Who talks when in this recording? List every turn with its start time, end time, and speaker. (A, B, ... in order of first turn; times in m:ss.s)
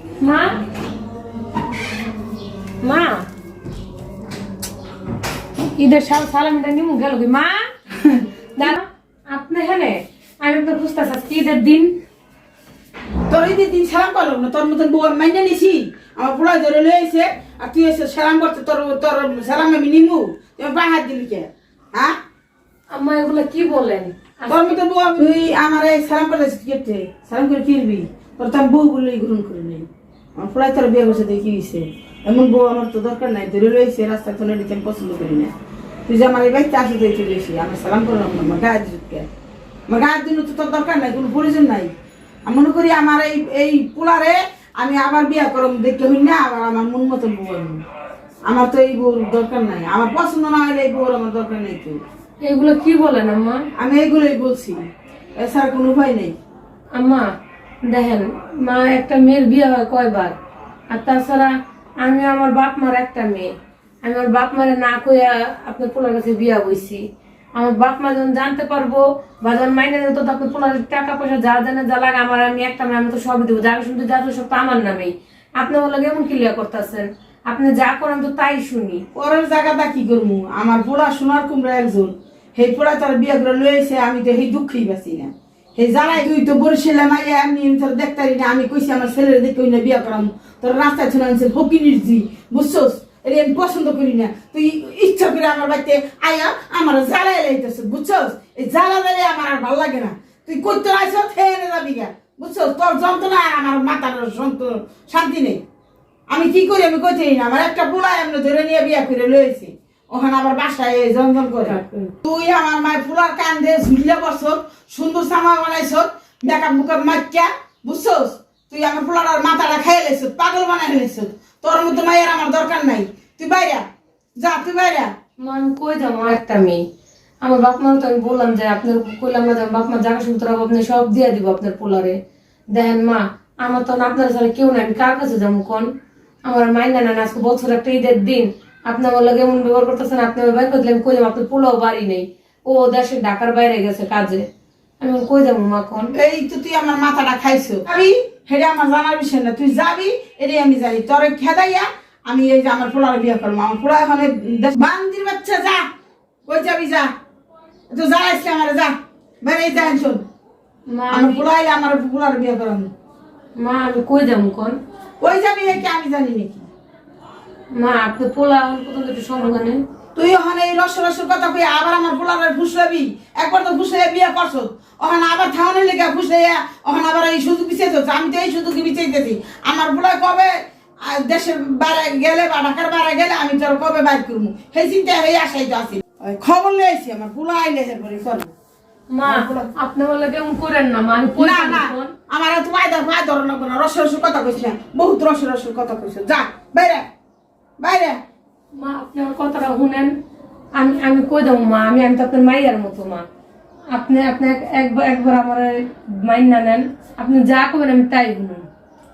0:00.2-0:00.6 A
0:02.8-0:03.2 A
0:05.8-0:07.6 A
0:08.0-0:08.7 B
0:08.6-0:11.9 A
0:13.3-0:22.1 B
0:22.9-0:24.8 A
0:24.5-0:35.5 B
0:36.1-0:39.3 B
0:39.9-0:41.9 B
0:42.4-0:47.8 B
0:48.5-0:52.0 B
0:52.4-0:53.6 A
0:53.8-0:54.8 B
0:55.4-0:56.4 B
0:57.0-0:57.2 A
0:57.8-1:00.3 A
1:00.9-1:03.5 A
1:04.0-1:07.0 A
1:07.5-1:19.0 A
1:19.1-1:45.6 B
1:46.3-2:03.8 B
1:51.6-1:52.1 A
2:04.4-2:05.1 B
2:05.4-2:06.8 A
2:07.4-2:12.2 A
2:12.7-2:15.9 A
2:16.4-2:24.4 A
2:25.0-2:26.1 A
2:26.1-2:35.8 B
2:36.5-2:37.1 B
2:37.9-2:40.2 B
2:40.9-2:41.4 A
2:41.1-2:42.9 B
2:43.6-2:44.8 A
2:45.2-2:46.7 B
2:47.7-2:49.8 A
2:50.1-3:00.5 B
3:01.0-3:08.5 B
3:09.1-3:12.1 A
3:09.2-3:09.7 B
3:11.4-3:17.0 B
3:17.8-3:18.2 B
3:18.7-3:20.1 A
3:20.7-3:23.2 A
3:23.9-3:28.6 A